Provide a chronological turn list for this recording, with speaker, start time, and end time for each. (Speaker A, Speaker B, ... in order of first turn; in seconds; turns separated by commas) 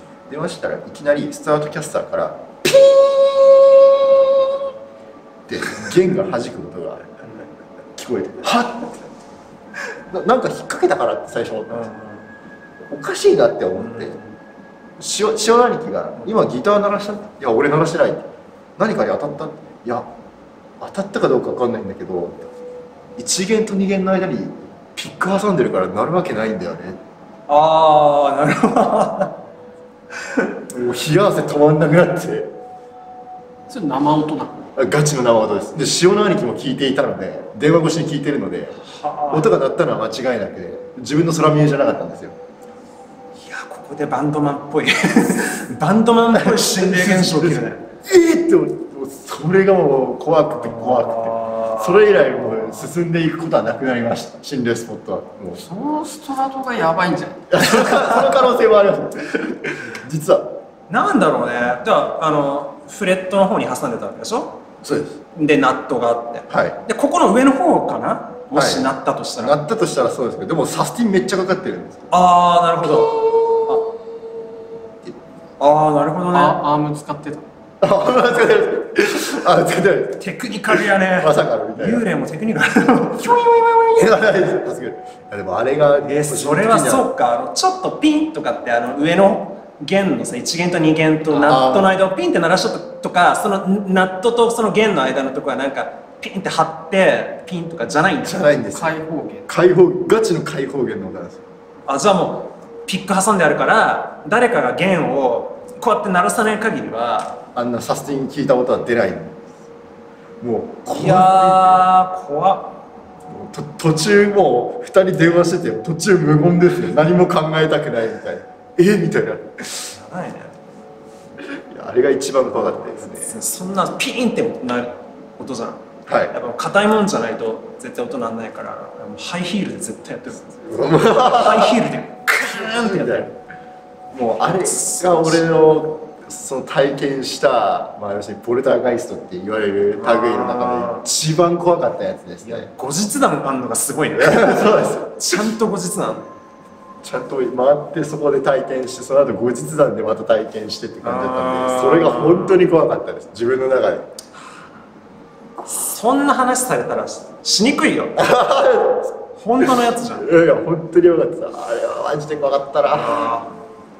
Speaker A: 0.3-4.5, Speaker A: 5.5-7.1, Speaker B: 7.2-7.5, Speaker A: 8.0-9.1, Speaker A: 9.9-11.9, Speaker B: 11.7-12.3, Speaker A: 12.8-14.2, Speaker B: 13.8-14.3, Speaker A: 15.0-20.1, Speaker A: 20.8-22.4, Speaker A: 23.2-27.0, Speaker B: 27.5-29.4, Speaker A: 30.7-32.5, Speaker C: 33.7-34.7, Speaker A: 34.7-42.4, Speaker B: 38.8-39.5, Speaker B: 43.4-47.9, Speaker A: 46.3-55.6, Speaker B: 50.5-52.9, Speaker C: 55.6-57.6, Speaker A: 57.5-60.6, Speaker B: 60.9-64.6, Speaker A: 64.8-65.2, Speaker B: 65.3-69.6, Speaker A: 66.5-66.8, Speaker A: 68.5-72.1, Speaker B: 72.1-73.9, Speaker A: 72.8-73.8, Speaker B: 75.6-76.6, Speaker C: 76.3-77.5, Speaker A: 77.8-82.1, Speaker B: 80.2-83.3, Speaker A: 83.2-87.1, Speaker B: 86.0-98.5, Speaker A: 91.3-92.0, Speaker A: 98.2-101.4, Speaker C: 98.7-99.5, Speaker B: 101.9-107.4, Speaker A: 107.5-109.5, Speaker A: 110.4-111.9, Speaker B: 110.9-112.8, Speaker A: 113.3-119.9, Speaker B: 119.9-120.5, Speaker A: 121.5-123.4, Speaker B: 122.6-133.3, Speaker A: 126.1-126.3, Speaker A: 130.6-131.8, Speaker A: 132.4-133.3, Speaker A: 134.1-142.7, Speaker B: 134.4-135.5, Speaker B: 140.0-141.1, Speaker B: 142.4-146.3, Speaker A: 144.2-145.5, Speaker A: 147.0-154.1, Speaker B: 151.0-152.7, Speaker B: 155.6-158.2, Speaker A: 158.2-163.4, Speaker B: 159.3-160.3, Speaker B: 162.9-163.5